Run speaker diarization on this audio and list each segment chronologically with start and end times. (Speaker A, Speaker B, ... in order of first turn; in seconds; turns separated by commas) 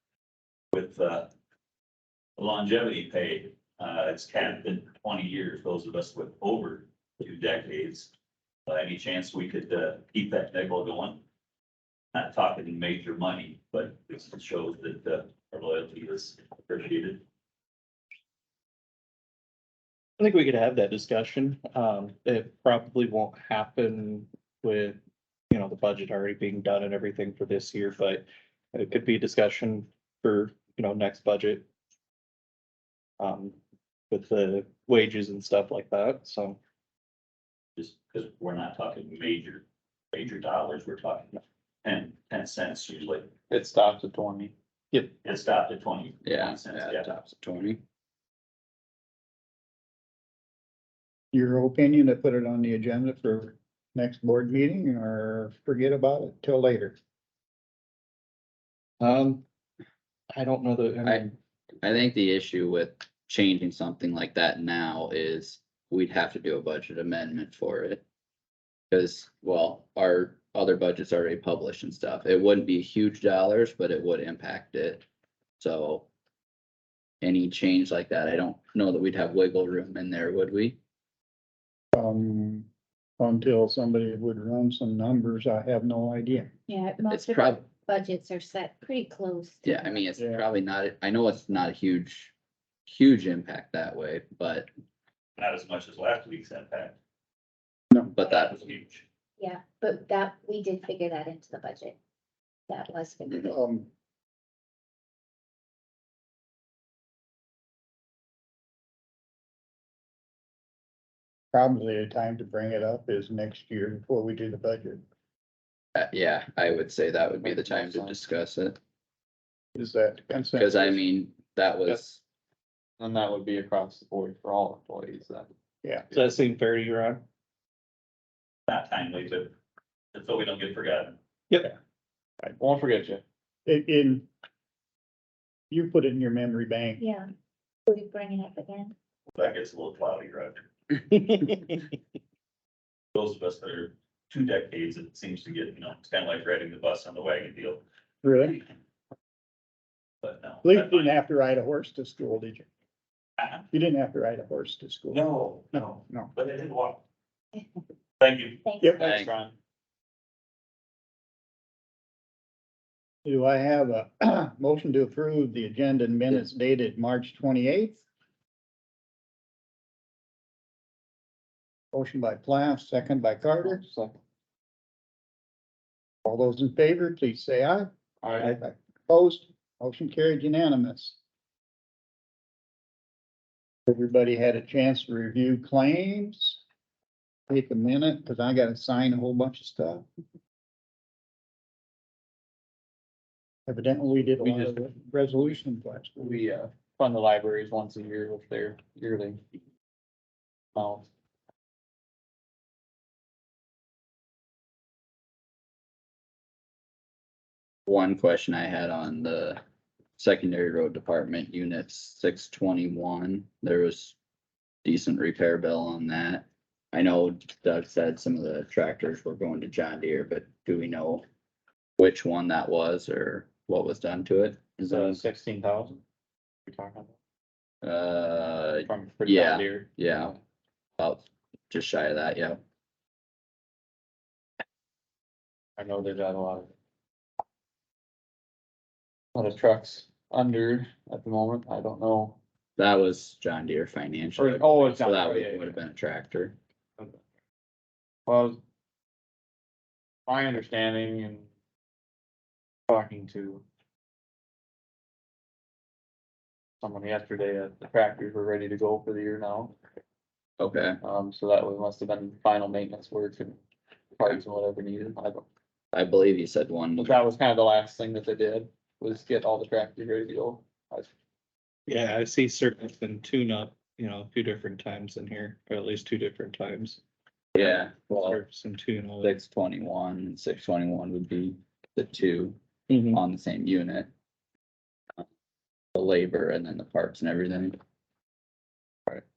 Speaker A: 0.7-1.3, Speaker A: 2.4-8.1, Speaker A: 8.7-11.2, Speaker A: 12.1-17.2, Speaker B: 20.2-25.0, Speaker B: 25.5-31.7, Speaker B: 33.2-33.6, Speaker B: 34.1-36.6, Speaker A: 37.8-43.3, Speaker C: 43.5-45.1, Speaker A: 45.2-47.1, Speaker D: 46.2-47.8, Speaker E: 51.3-57.0, Speaker B: 59.0-59.4, Speaker B: 60.3-61.4, Speaker D: 61.8-68.0, Speaker D: 68.9-75.0, Speaker D: 75.6-76.1, Speaker D: 77.2-80.8, Speaker E: 81.9-82.7, Speaker E: 83.2-86.5, Speaker F: 86.7-90.0, Speaker D: 87.1-87.6, Speaker D: 89.6-92.3, Speaker E: 90.2-90.4, Speaker D: 92.8-94.7, Speaker A: 95.4-97.0, Speaker D: 98.1-98.5, Speaker A: 98.2-99.0, Speaker F: 99.4-102.0, Speaker F: 102.7-103.5, Speaker E: 103.4-103.9, Speaker E: 111.5-115.0, Speaker D: 115.9-118.8, Speaker C: 117.4-118.2, Speaker E: 119.7-121.0, Speaker D: 120.6-122.2, Speaker C: 123.0-125.5, Speaker E: 125.8-126.1, Speaker B: 126.1-127.2, Speaker A: 128.7-129.5, Speaker A: 130.1-131.2, Speaker C: 132.6-133.2, Speaker E: 133.7-134.3, Speaker E: 135.7-137.0, Speaker F: 137.0-137.3, Speaker F: 137.9-138.9, Speaker A: 139.3-140.7, Speaker A: 143.1-147.8, Speaker E: 148.2-148.6, Speaker A: 150.2-151.1, Speaker E: 150.6-152.7, Speaker A: 153.4-153.7, Speaker E: 153.7-156.3, Speaker A: 155.1-157.0, Speaker A: 158.2-158.6, Speaker F: 158.6-159.0, Speaker E: 158.8-159.1, Speaker C: 158.8-159.5, Speaker D: 159.0-159.3, Speaker E: 163.2-168.0, Speaker E: 171.9-173.8, Speaker C: 173.6-174.2, Speaker E: 176.2-177.9, Speaker C: 178.2-178.6, Speaker E: 178.5-181.2, Speaker E: 183.9-186.6, Speaker E: 187.5-190.1, Speaker E: 193.7-196.4, Speaker C: 194.2-194.9, Speaker C: 196.2-199.4, Speaker C: 200.7-201.1, Speaker D: 207.9-209.6, Speaker D: 210.2-214.2, Speaker D: 214.8-221.2, Speaker D: 222.0-225.2, Speaker C: 224.8-226.0, Speaker C: 226.7-227.1, Speaker D: 227.8-230.4, Speaker C: 228.8-230.3, Speaker D: 231.0-232.6, Speaker C: 235.8-236.7, Speaker C: 239.3-242.4, Speaker D: 242.8-246.6, Speaker C: 244.3-245.8, Speaker C: 248.3-248.6, Speaker C: 250.3-251.5, Speaker C: 252.9-253.6, Speaker C: 256.8-259.8, Speaker D: 260.6-261.0, Speaker C: 261.0-263.6, Speaker C: 264.2-265.4, Speaker D: 265.9-267.2, Speaker C: 267.0-271.1, Speaker B: 271.9-277.0, Speaker D: 277.5-278.4, Speaker B: 277.6-279.4, Speaker D: 279.2-284.1, Speaker B: 282.9-283.2, Speaker D: 285.9-287.8